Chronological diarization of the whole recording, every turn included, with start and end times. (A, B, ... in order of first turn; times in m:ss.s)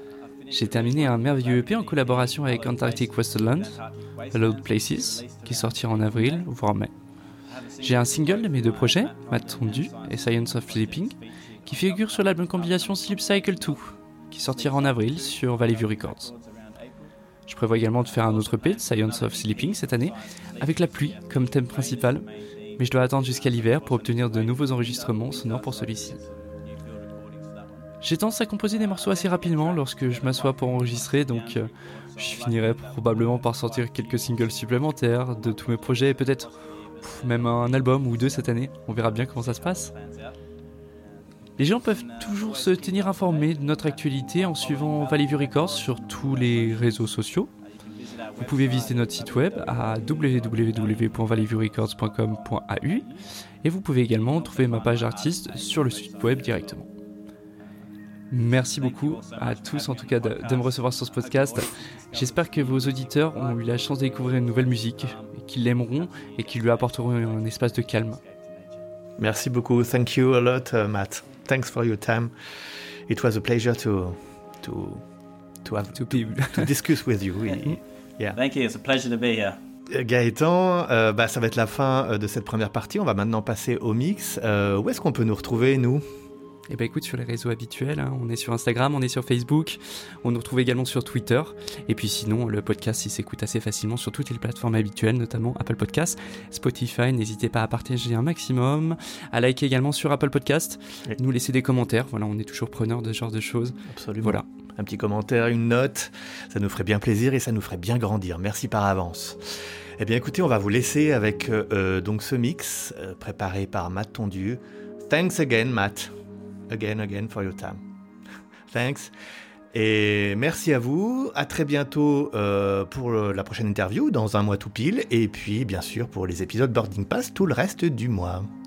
0:00.5-0:03.8 A
0:00.5-0:05.3 B
0:04.3-0:06.9 A
0:07.5-0:11.6 B
0:07.8-0:16.3 A
0:16.3-0:16.9 B
0:17.5-0:22.3 A
0:22.8-0:26.2 A
0:25.2-0:27.7 B
0:28.0-0:39.9 A
0:41.6-0:47.5 A
0:43.0-0:43.2 B
0:44.5-0:46.8 B
0:47.8-0:51.2 B
0:48.4-0:53.1 A
0:53.6-0:56.9 A
0:54.5-0:56.6 B
0:58.3-1:08.2 A
0:58.9-1:04.5 B
1:06.2-1:07.0 B
1:08.2-1:08.8 B
1:09.2-1:12.3 C
1:13.1-1:15.0 C
1:15.6-1:18.4 C
1:15.9-1:16.7 A
1:18.3-1:19.6 B
1:19.9-1:26.0 C
1:26.7-1:44.4 A
1:43.8-1:56.1 C
1:56.7-1:57.8 C
1:58.7-1:59.1 C
1:59.7-2:08.5 C